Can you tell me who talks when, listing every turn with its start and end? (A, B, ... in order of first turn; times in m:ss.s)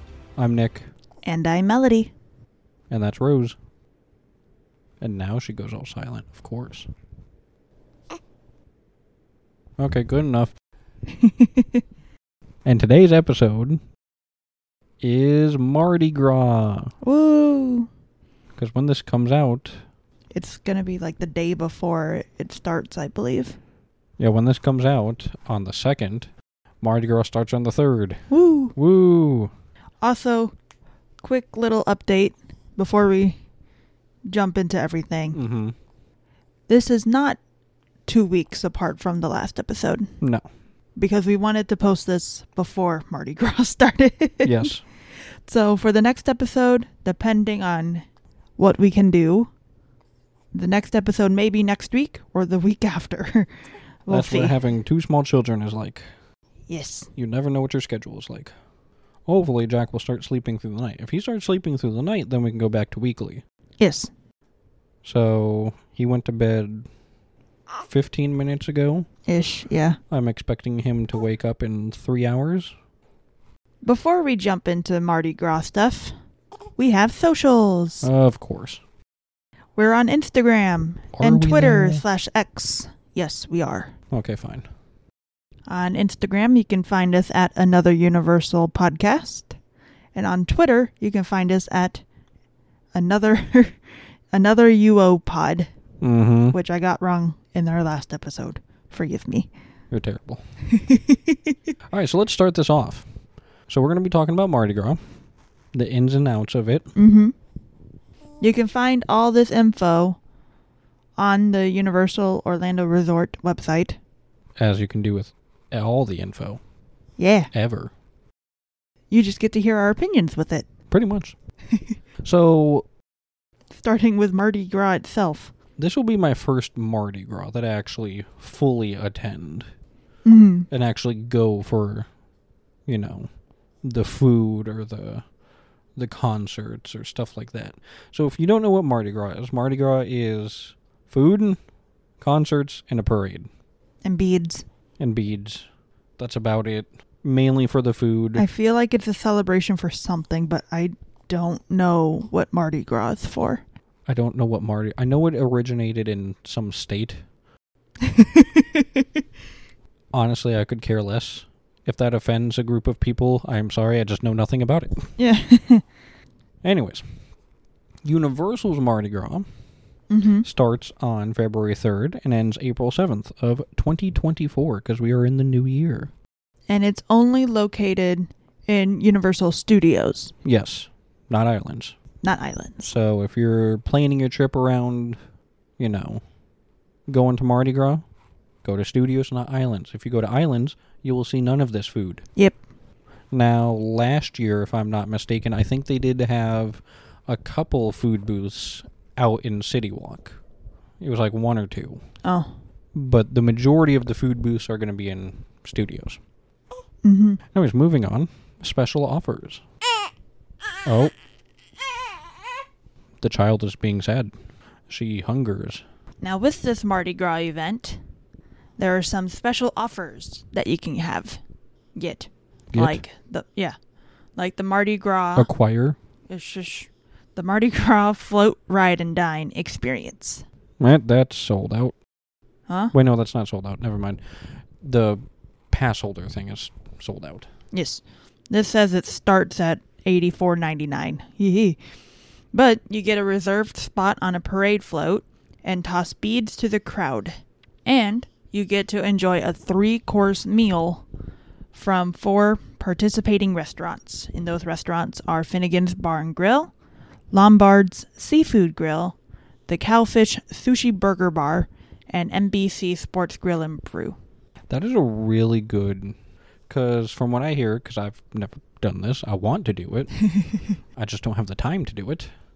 0:00.4-0:00.9 A
0:01.2-0:02.1 B
0:02.9-0:03.6 A
0:05.0-0:06.9 A
0:09.8-0:10.5 A
0:11.1-0:11.8 B
0:12.6-0:13.8 A
0:15.0-0:16.9 A
0:17.0-0:17.9 B
0:18.6-0:19.8 A
0:20.3-0:23.6 B
0:24.2-0:26.3 A
0:26.8-0:28.2 A
0:28.3-0:28.8 B
0:28.8-0:29.5 A
0:30.0-0:30.5 B
0:31.2-0:33.4 B
0:34.3-0:35.4 B
0:35.3-0:35.8 A
0:36.7-0:37.4 B
0:38.1-0:40.1 B
0:41.0-0:44.7 B
0:44.4-0:44.8 A
0:45.5-0:48.0 B
0:48.6-0:49.5 B
0:50.5-0:53.5 B
0:54.1-0:54.6 B
0:54.1-0:56.0 A
0:56.7-0:57.1 B
0:57.2-0:58.5 A
0:59.3-1:03.4 A
1:03.8-1:04.1 B
1:05.0-1:06.9 A
1:07.8-1:09.1 A
1:09.3-1:10.0 B
1:10.1-1:12.7 A
1:13.8-1:16.2 B
1:16.8-1:18.1 B
1:18.0-1:18.8 A
1:19.8-1:23.9 B
1:21.1-1:22.0 A
1:24.1-1:24.7 A
1:25.7-1:29.6 B
1:30.2-1:32.0 B
1:33.0-1:33.8 B
1:34.3-1:35.7 B
1:36.0-1:36.6 A
1:36.5-1:39.5 B
1:39.9-1:40.4 A
1:40.7-1:41.6 B
1:41.9-1:43.1 A
1:43.7-1:45.0 A
1:45.7-1:46.9 A
1:47.0-1:47.3 B
1:48.4-1:50.2 B
1:51.2-1:54.0 B
1:54.6-1:56.6 A
1:57.2-1:57.5 B
1:57.5-1:57.9 A
1:59.1-2:00.7 B
2:00.9-2:01.4 A
2:02.2-2:02.9 A
2:03.8-2:05.5 B
2:05.8-2:09.7 A
2:10.2-2:10.7 B
2:10.7-2:12.1 A
2:12.9-2:13.3 A
2:13.8-2:15.2 A
2:16.0-2:21.6 A
2:22.2-2:23.5 A
2:24.0-2:24.6 B
2:25.0-2:25.7 A
2:26.2-2:28.4 A
2:28.4-2:33.6 B
2:34.1-2:37.2 A
2:38.0-2:39.0 B
2:40.1-2:45.1 A
2:45.2-2:45.8 B
2:46.6-2:47.0 A
2:48.0-2:49.5 A
2:50.1-2:50.5 B
2:50.4-2:56.1 A
2:56.7-3:00.3 B
3:00.4-3:02.0 A
3:02.2-3:02.9 B
3:02.8-3:05.2 A
3:05.8-3:06.2 A
3:07.1-3:08.0 A
3:08.6-3:12.2 A
3:13.3-3:20.4 A
3:21.0-3:22.0 A
3:22.2-3:22.5 B
3:22.9-3:26.2 A
3:27.0-3:27.4 B
3:27.5-3:29.6 A
3:30.8-3:31.1 A
3:33.2-3:34.3 A
3:34.9-3:35.8 A
3:36.2-3:38.0 B
3:38.8-3:41.4 B
3:42.0-3:43.8 B
3:42.7-3:43.0 A
3:44.4-3:45.5 B
3:45.4-3:46.0 A
3:46.3-3:50.4 B
3:50.8-3:52.0 A
3:52.7-3:52.9 B
3:52.9-3:57.5 A
3:57.7-4:01.8 B
4:02.5-4:11.1 B
4:11.7-4:16.7 B
4:17.3-4:19.2 B
4:19.7-4:24.2 B
4:24.7-4:26.2 A
4:26.7-4:30.1 A
4:30.2-4:30.8 B
4:31.0-4:32.3 A